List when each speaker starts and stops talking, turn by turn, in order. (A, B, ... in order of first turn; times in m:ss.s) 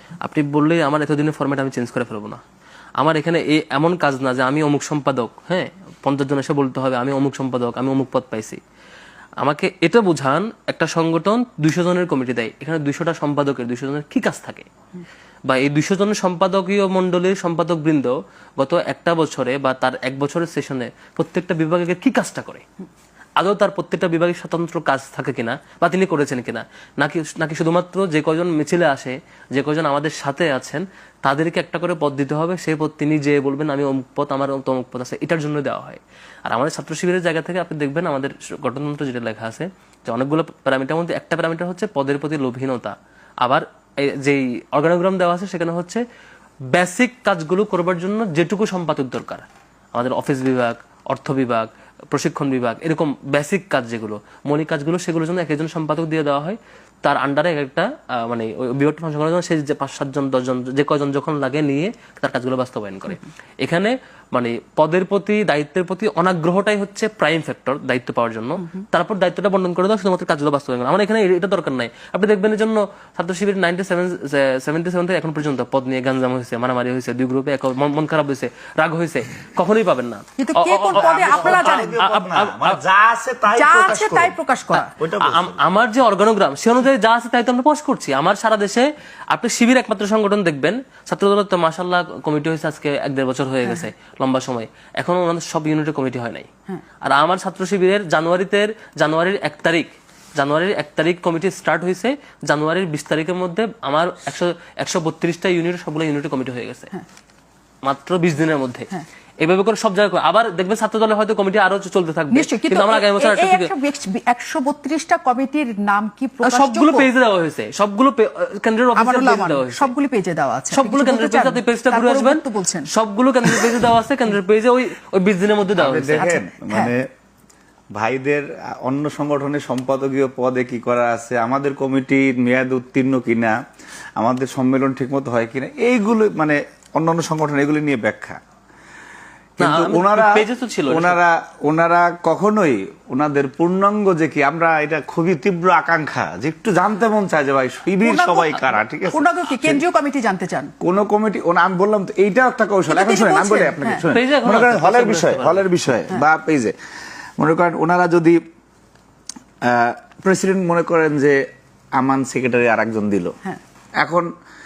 0:00.2-0:02.4 A
0:03.0-0:08.6 A
0:09.4-0:14.7 A
0:15.5-0:22.6 A
0:23.4-0:46.0 A
0:46.7-1:22.8 A
1:20.4-1:21.9 B
1:20.9-1:24.4 C
1:23.5-1:24.9 B
1:24.7-1:36.5 A
1:25.0-1:25.6 C
1:37.0-1:46.9 A
1:47.8-1:48.9 A
1:49.4-1:53.7 A
1:52.3-1:57.1 B
1:56.4-1:59.9 A
1:58.9-2:02.9 B
2:00.7-2:06.3 A
2:03.4-2:03.9 B
2:05.8-2:07.0 C
2:06.2-2:06.9 B
2:07.9-2:13.6 C
2:14.2-2:18.4 C
2:19.6-2:29.8 C
2:19.6-2:21.2 A
2:28.0-2:30.7 B
2:30.8-2:36.7 C
2:32.9-2:34.0 B
2:34.1-2:35.7 A
2:37.4-2:38.4 C
2:39.6-2:41.4 C
2:42.0-2:43.3 C
2:44.0-2:44.3 C